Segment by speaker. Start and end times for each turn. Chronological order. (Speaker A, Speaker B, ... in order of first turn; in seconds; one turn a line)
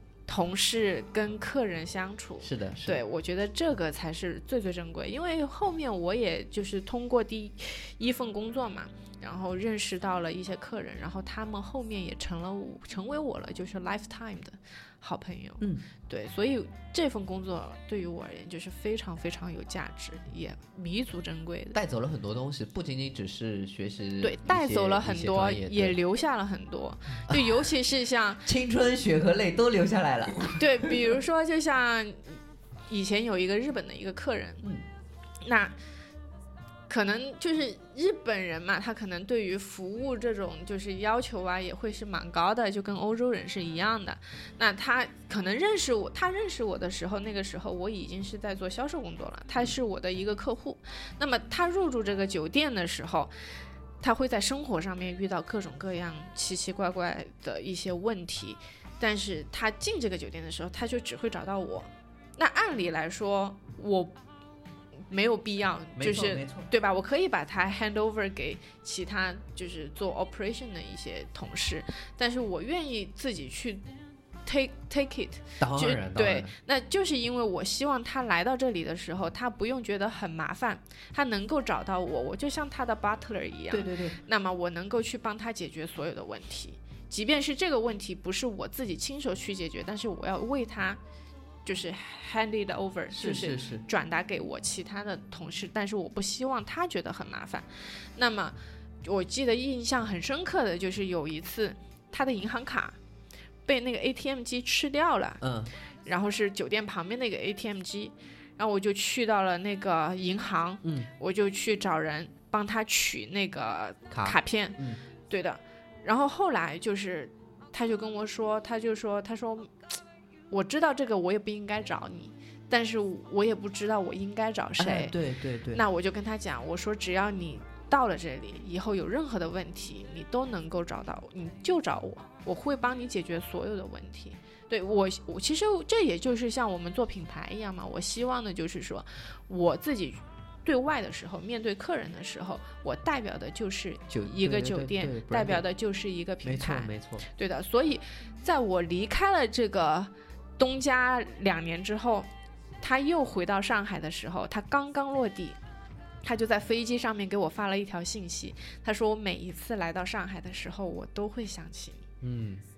Speaker A: 0.3-21.8
Speaker B: 2.4-3.0
Speaker B: 15.6-15.8
Speaker B: 21.7-26.0
Speaker A: 24.2-28.4
Speaker B: 27.3-27.6
Speaker B: 28.4-30.6
Speaker A: 30.6-34.6
Speaker A: 35.4-35.8
Speaker A: 36.9-53.3
Speaker A: 54.0-64.2
Speaker A: 65.1-73.8
Speaker B: 66.0-66.7
Speaker A: 74.5-91.0
Speaker B: 75.6-76.5
Speaker B: 83.7-84.2
Speaker A: 91.7-103.0
Speaker B: 93.1-93.8
Speaker A: 103.7-105.4
Speaker B: 105.4-105.7
Speaker A: 106.0-119.7
Speaker B: 110.8-111.1
Speaker B: 114.1-115.0
Speaker A: 120.5-125.2
Speaker B: 124.8-125.8
Speaker A: 125.7-152.3
Speaker B: 144.1-145.7
Speaker B: 146.4-147.2
Speaker A: 152.8-155.6
Speaker A: 156.2-162.1
Speaker B: 162.2-162.6